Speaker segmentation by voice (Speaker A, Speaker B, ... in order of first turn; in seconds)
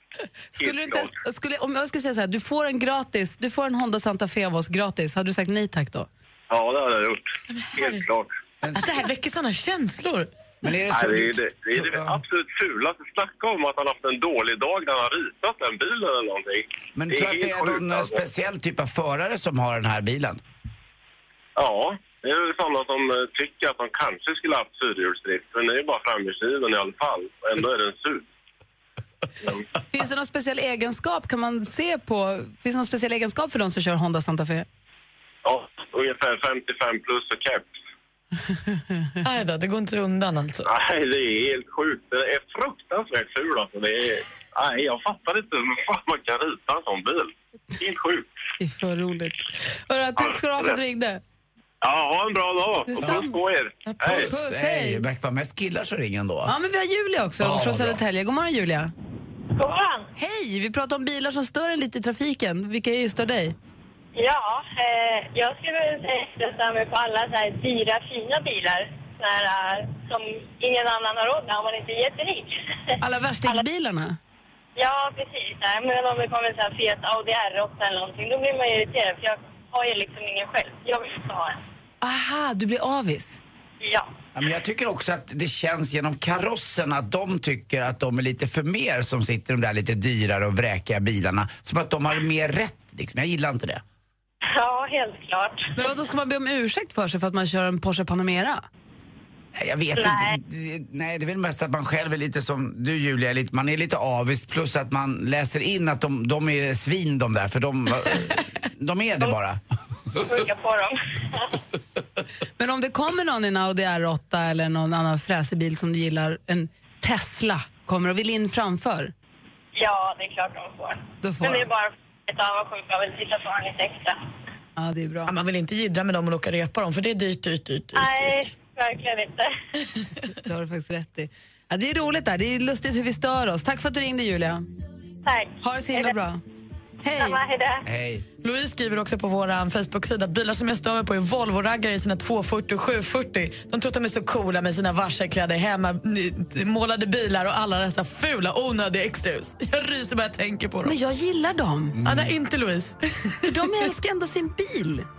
Speaker A: 0.6-6.1, 29.9-34.7, 48.6-51.2, 52.9-53.4, 54.0-55.0, 56.5-58.9, 60.2-63.5, 73.0-74.2, 82.0-83.4, 95.8-98.7, 112.6-119.1, 121.2-121.7, 124.8-125.3, 130.3-134.6, 135.6-136.4, 137.0-137.4, 150.8-152.0, 153.4-155.1
Speaker B: 0.6-1.1, 6.5-8.3, 10.9-18.2, 21.6-28.3, 29.4-29.7, 35.5-37.7, 40.7-48.3, 50.2-50.8, 51.8-54.3
Speaker C: 7.5-8.0, 8.7-10.3, 39.2-40.7, 53.9-54.2, 125.3-128.4, 138.4-151.0, 152.0-153.8
Speaker D: 8.6-8.9, 10.6-12.2, 16.9-20.4, 54.1-56.5, 57.4-58.0, 84.3-93.8, 99.5-109.6, 137.8-138.3, 152.0-152.3
Speaker E: 59.5-60.1, 64.2-72.6, 74.8-81.6, 83.8-84.1, 94.5-95.7, 100.0-100.4, 110.2-111.6, 119.8-124.2, 128.0-129.5, 135.2-136.2, 137.1-137.9